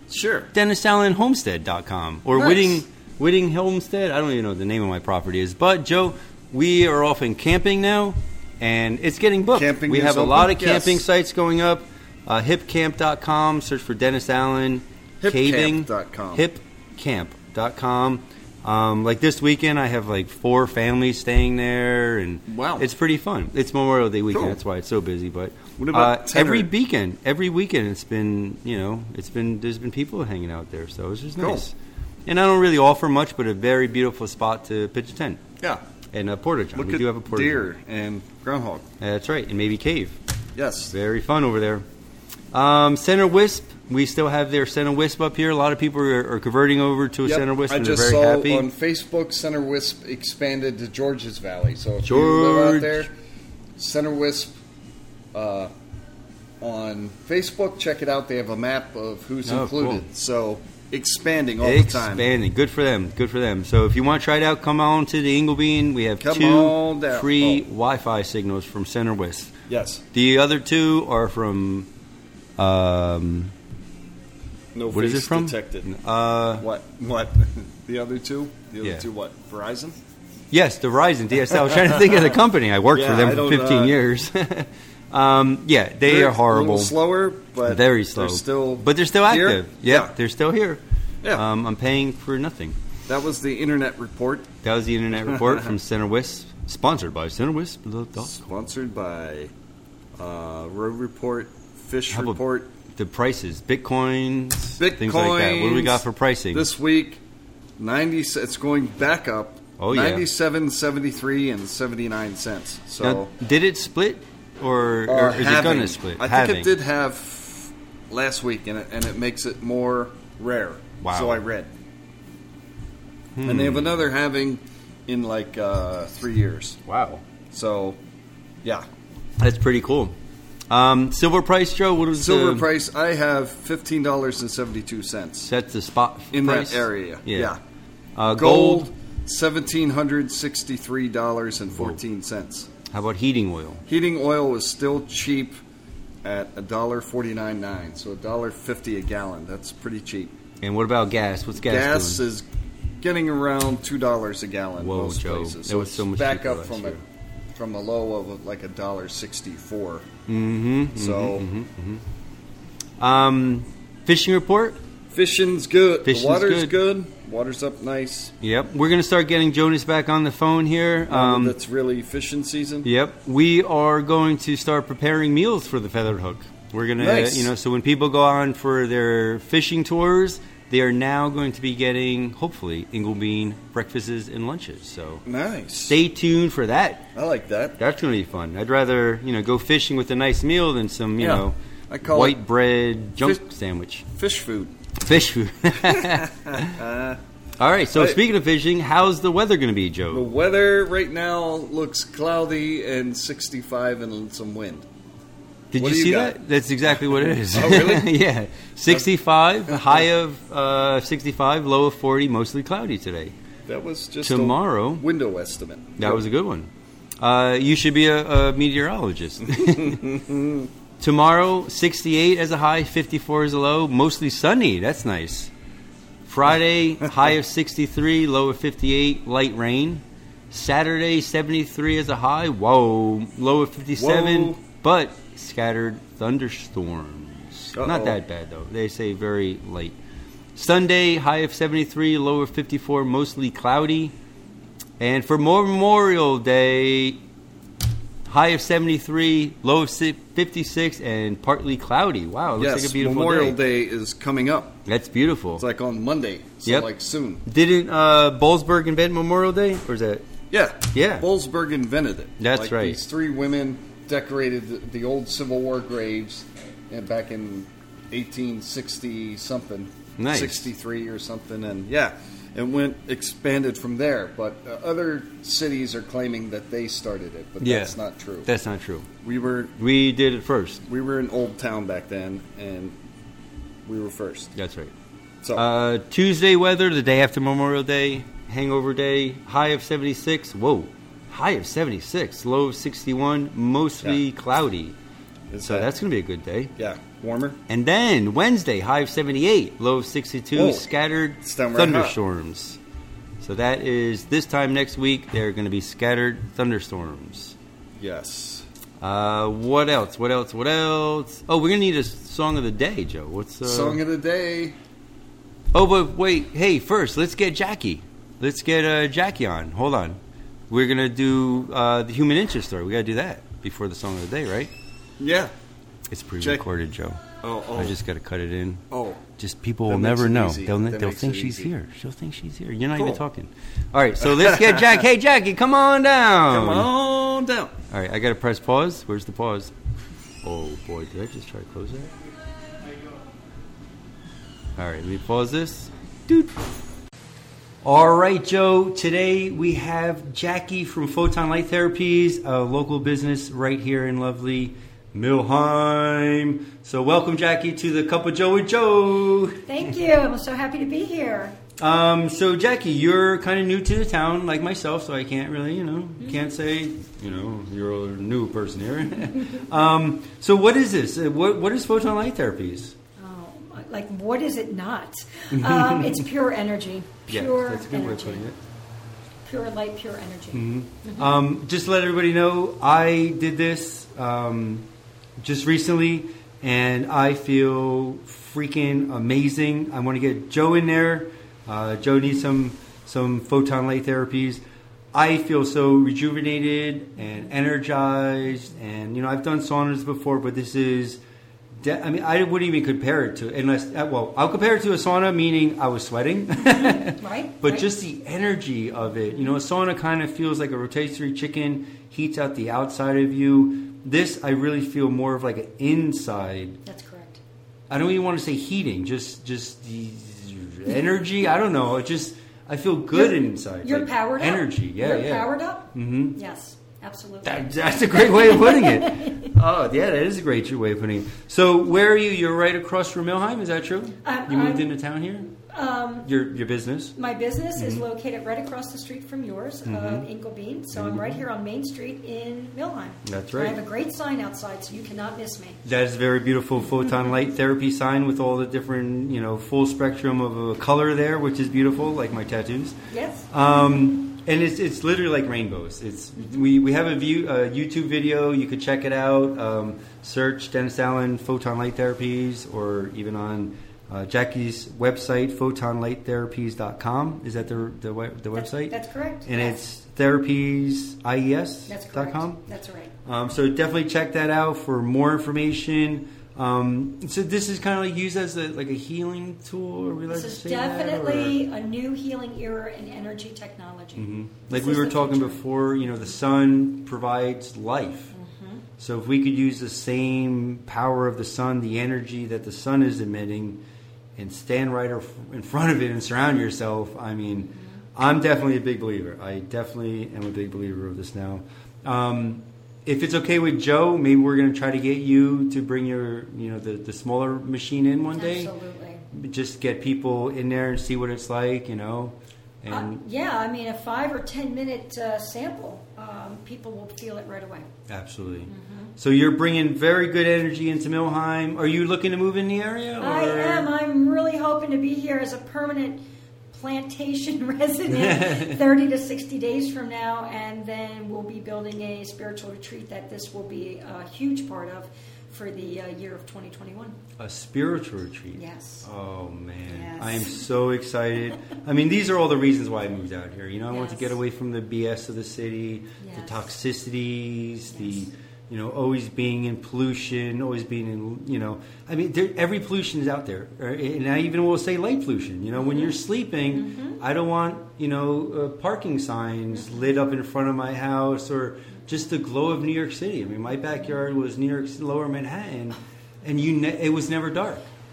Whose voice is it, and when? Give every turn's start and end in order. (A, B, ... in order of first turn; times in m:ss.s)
0:00.1-0:00.5 A
0:00.5-0:31.7 B
0:02.3-0:02.8 A
0:09.5-0:11.0 A
0:15.2-0:16.4 A
0:22.5-0:22.9 A
0:24.3-0:24.6 A
0:25.8-0:26.7 A
0:31.4-0:31.6 A
0:32.2-0:35.4 B
0:36.1-0:37.7 B
0:36.7-0:38.8 A
0:39.0-0:40.2 B
0:40.6-0:40.9 A
0:40.9-0:41.8 B
0:42.5-0:48.7 B
0:47.2-0:53.1 A
0:52.0-0:53.1 B
0:53.8-0:54.6 A
0:55.3-0:55.7 A
0:56.6-1:02.3 A
0:59.4-1:00.1 B
1:01.6-1:09.5 B
1:06.2-1:07.6 A
1:09.7-1:10.0 A
1:10.1-1:11.9 B
1:12.6-1:13.5 B
1:14.7-1:15.9 A
1:14.9-1:16.6 B
1:16.6-1:20.0 A
1:20.5-1:26.9 B
1:21.6-1:22.3 A
1:22.9-1:23.9 A
1:26.0-1:30.1 A
1:27.6-1:30.8 B
1:31.3-1:32.8 B
1:33.1-1:34.5 A
1:34.6-1:38.3 B
1:35.3-1:35.7 A
1:38.2-1:39.5 A
1:40.2-1:42.7 A
1:42.1-1:46.7 B
1:44.8-1:47.2 A
1:47.8-1:53.3 A
1:49.8-1:50.3 B
1:53.0-1:56.7 B
1:55.1-2:01.7 A
2:01.0-2:01.4 B
2:03.3-2:04.0 B
2:03.4-2:06.8 A
2:06.8-2:07.2 B
2:07.5-2:08.0 A
2:09.4-2:10.1 B
2:10.7-2:12.7 B
2:12.1-2:15.5 A
2:15.4-2:17.6 B
2:16.3-2:17.6 A
2:18.2-2:18.9 B
2:18.3-2:22.7 A
2:22.9-2:23.8 B
2:23.9-2:25.6 A
2:26.2-2:30.3 A
2:30.6-2:32.2 B
2:31.6-2:32.4 A
2:33.0-2:37.0 A
2:34.8-2:37.0 B
2:37.5-2:40.1 A
2:40.3-2:42.0 B
2:40.9-2:41.4 A
2:43.0-2:44.8 B
2:45.1-2:48.3 A
2:46.0-2:46.7 B
2:48.4-2:51.6 B
2:51.1-2:52.9 A
2:52.8-3:05.2 B
2:57.0-2:57.5 A
3:05.2-3:06.0 A
3:05.9-3:07.1 B
3:07.1-3:07.8 A
3:07.8-3:14.0 B
3:11.2-3:12.4 A
3:14.1-3:14.7 A
3:15.0-3:16.8 B
3:15.8-3:17.2 A
3:17.6-3:20.3 B
3:17.9-3:18.2 A
3:20.1-3:24.8 A
3:25.7-3:33.3 B
3:25.8-3:26.4 A
3:26.9-3:28.2 A
3:33.7-3:36.2 A
3:34.2-3:35.0 B
3:36.0-3:36.7 B
3:37.2-3:40.0 B
3:39.6-3:40.7 A
3:41.0-3:45.5 B
3:46.2-4:00.0 B
3:53.9-3:54.6 A
3:57.7-3:58.2 A
4:00.5-4:04.1 B
4:05.0-4:07.2 B
4:08.2-4:13.6 B
4:12.6-4:14.8 A
4:14.8-4:15.6 B
4:15.6-4:17.4 A
4:16.6-4:16.9 B
4:17.4-4:20.2 B
4:20.5-4:38.5 A
4:20.9-4:21.3 B
4:22.4-4:23.0 B
4:30.2-4:30.7 B
4:37.6-4:39.1 B
4:39.2-4:39.8 A
4:39.8-4:40.8 B
4:40.9-4:42.9 A
4:43.8-4:44.5 A
4:44.5-4:44.9 B
4:45.5-4:55.0 B
4:55.5-4:55.9 A
4:55.6-4:56.7 B
4:56.8-4:57.6 A
4:57.7-5:02.8 B
5:00.5-5:00.9 A
5:01.4-5:02.2 A
5:03.4-5:07.6 B
5:08.0-5:08.6 A
5:09.0-5:14.0 B
5:13.6-5:14.7 A
5:15.7-5:24.7 B
5:25.2-5:25.5 A
5:26.1-5:27.2 B
5:27.4-5:28.0 A
5:27.7-5:28.8 B
5:28.9-5:29.2 A
5:29.4-5:36.9 B
5:29.9-5:31.7 A
5:34.2-5:35.0 A
5:36.5-5:37.7 A
5:37.9-5:39.7 B
5:40.4-5:42.1 B
5:44.8-5:46.5 B
5:47.8-5:59.6 B
5:59.6-6:01.6 C
6:01.8-6:13.0 B
6:13.2-6:18.5 C
6:15.5-6:16.2 B
6:17.3-6:18.6 B
6:19.4-6:21.4 C
6:20.5-6:24.9 B
6:25.4-6:34.6 B
6:35.1-6:41.2 B
6:41.8-6:56.8 B
6:46.6-6:47.9 C
6:56.8-6:57.4 C
6:57.9-7:06.4 B
7:03.1-7:09.5 C
7:07.4-7:15.5 B
7:14.2-7:14.9 C
7:15.5-7:16.3 C
7:16.2-7:17.1 B
7:17.2-7:25.8 C
7:17.8-7:18.0 B
7:19.8-7:20.2 B
7:20.9-7:21.4 B
7:23.2-7:23.8 B
7:25.8-7:33.0 B
7:33.1-7:33.5 C
7:33.5-7:48.9 B
7:48.5-7:49.8 C
7:49.4-7:52.6 B
7:51.9-7:53.1 C
7:53.2-8:01.6 B
8:00.3-8:05.6 C
8:04.2-8:08.3 B
8:08.3-8:08.8 C
8:09.0-8:13.8 B
8:14.4-8:28.7 B
8:17.6-8:18.0 C
8:28.3-8:29.2 C
8:29.3-8:33.2 B
8:32.9-8:37.9 C
8:38.1-8:43.9 B
8:38.6-8:39.1 C
8:43.2-8:57.2 C
8:48.1-8:48.8 B
8:57.4-9:27.9 B
8:58.5-8:59.1 C
8:59.9-9:00.5 C
9:03.9-9:04.3 C
9:06.2-9:06.6 C
9:07.9-9:08.3 C
9:15.8-9:16.2 C
9:16.7-9:17.2 C
9:19.7-9:20.0 C